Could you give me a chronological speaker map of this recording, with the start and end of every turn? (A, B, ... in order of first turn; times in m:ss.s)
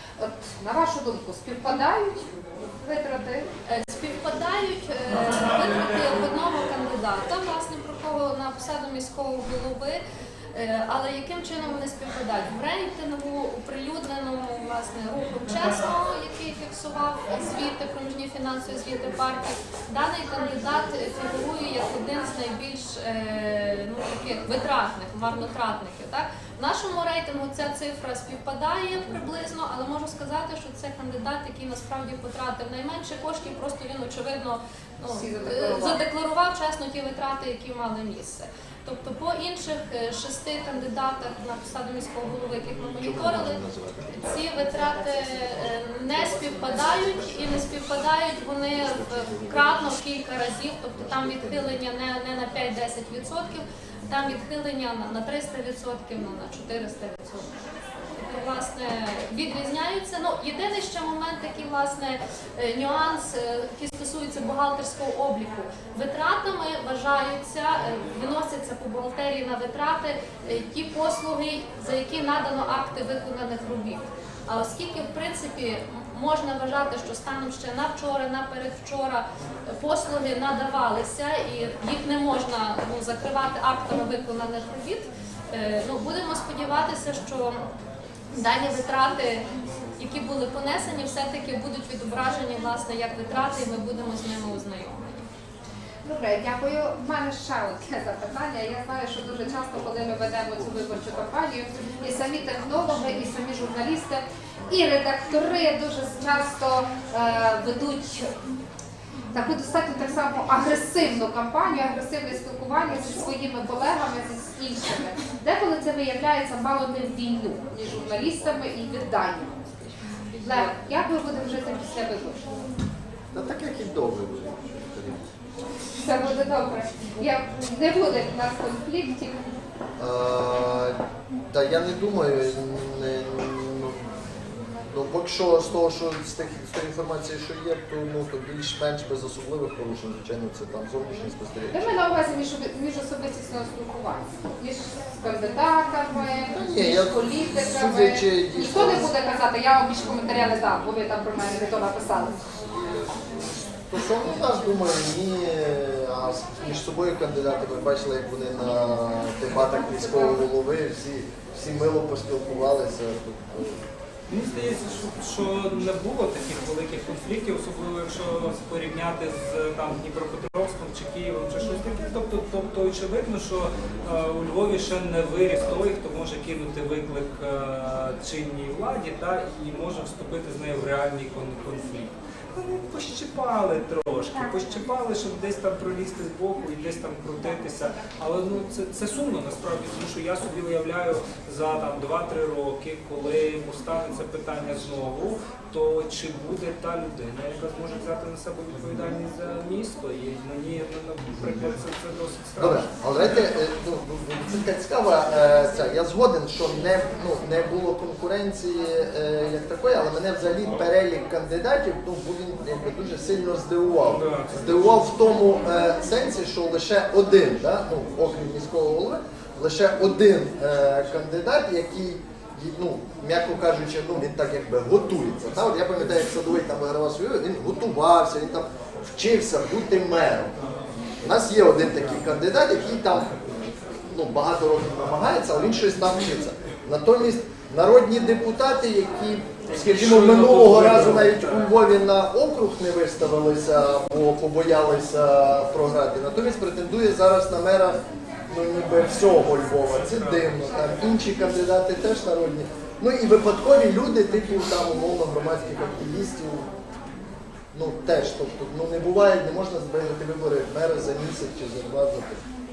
0:00.2-0:03.5 A
0:03.6-0:10.0 B
0:10.5-0:43.6 B
0:35.0-0:36.0 A
0:43.0-0:44.4 C
0:44.2-0:57.5 B
0:48.9-0:49.8 C
0:51.0-0:51.6 C
0:58.2-1:27.7 B
1:28.3-1:29.4 B
1:30.0-1:35.3 B
1:36.0-1:48.3 A
1:49.3-2:02.4 A
2:00.4-2:00.7 B
2:03.3-2:05.3 C
2:06.0-2:09.4 A
2:10.0-2:11.0 C
2:11.5-2:14.0 C
2:14.9-2:22.0 C
2:21.7-2:32.4 A
2:26.5-2:29.1 C
2:33.1-2:43.8 C
2:39.6-2:40.4 A
2:44.3-3:22.9 D
3:22.6-3:50.5 C
3:34.0-3:35.1 D
3:51.2-4:16.7 C
3:59.7-4:01.6 D
4:09.8-4:10.8 D
4:17.7-4:22.4 C